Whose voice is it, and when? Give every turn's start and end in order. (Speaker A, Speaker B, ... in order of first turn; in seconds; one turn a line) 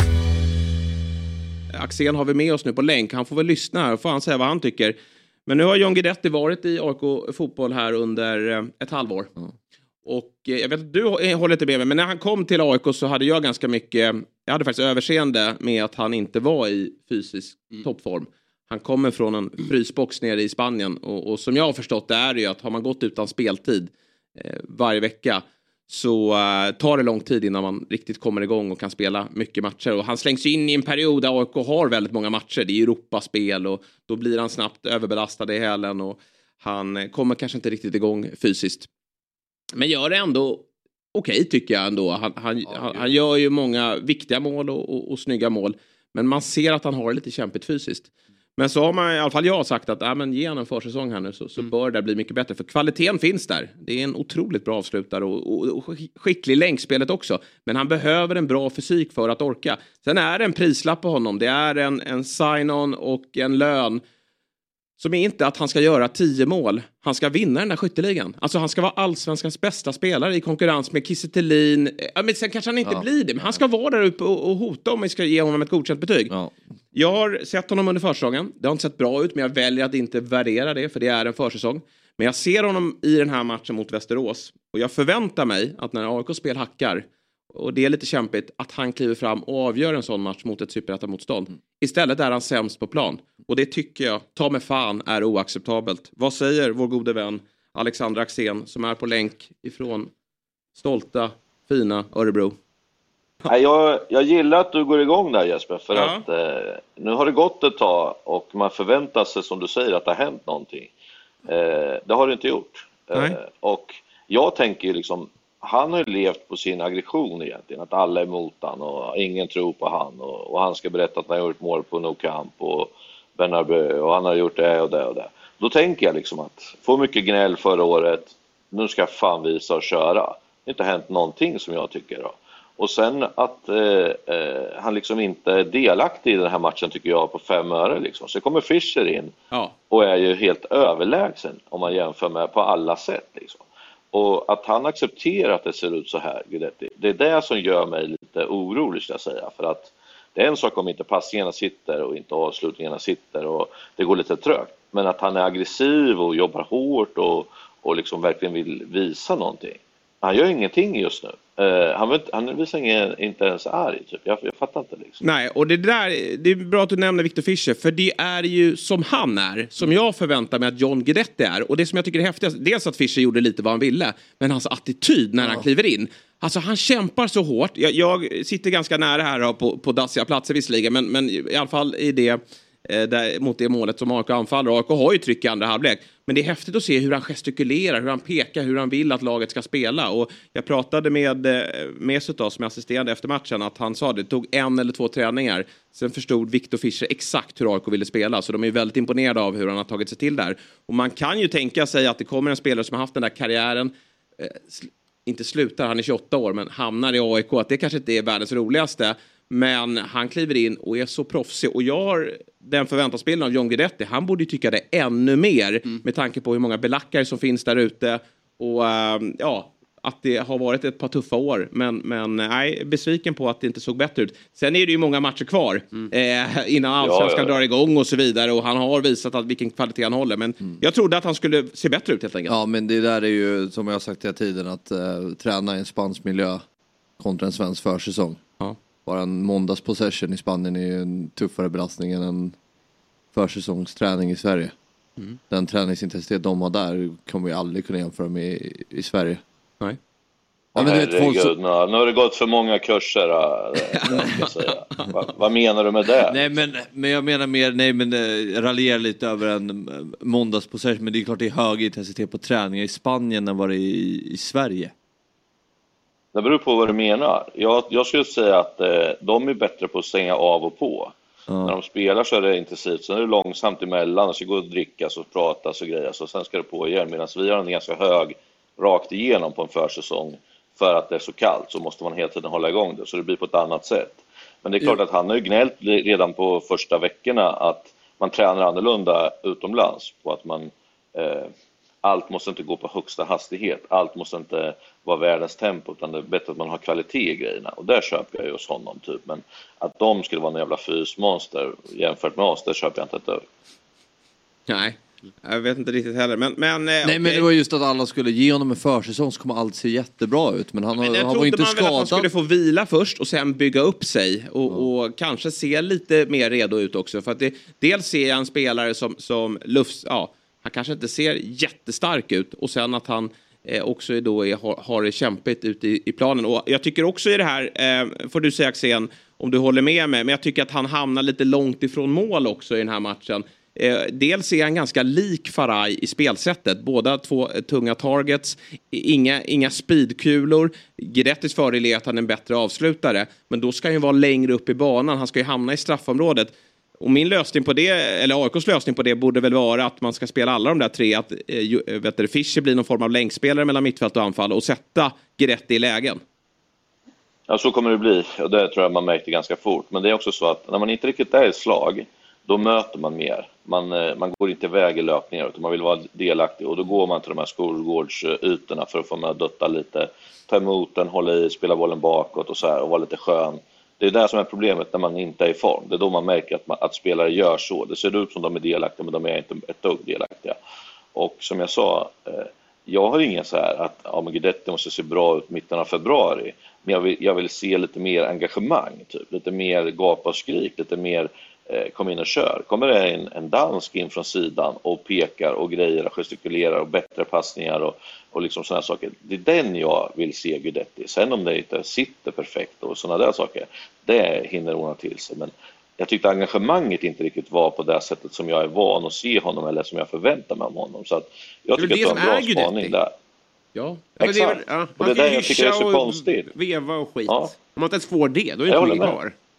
Speaker A: 1.7-9.3
Speaker A: 10.1-38.9
Speaker A: 39.7-64.0
Speaker A: 65.0-76.3
Speaker B: 72.8-73.6
Speaker B: 76.3-76.5
Speaker A: 76.9-100.1
Speaker A: 100.8-102.6
Speaker C: 103.5-110.9
Speaker A: 105.9-106.2
Speaker C: 111.5-139.3
Speaker C: 139.9-165.2
Speaker A: 165.2-232.6
Speaker C: 227.0-227.6
Speaker B: 232.5-236.6
Speaker B: 237.2-238.4
Speaker B: 239.1-242.6
Speaker B: 243.3-244.7
Speaker B: 245.5-249.4
Speaker B: 250.8-251.5
Speaker C: 250.8-256.4
Speaker A: 253.9-255.1
Speaker B: 256.2-264.9
Speaker C: 266.3-291.5
Speaker B: 271.5-271.8
Speaker C: 292.0-303.4
Speaker A: 304.7-307.5
Speaker B: 307.0-312.3
Speaker A: 311.0-356.2
Speaker C: 357.5-380.6
Speaker C: 381.1-413.1
Speaker D: 411.8-413.0
Speaker D: 414.1-419.3
Speaker C: 414.2-416.5
Speaker C: 418.7-419.2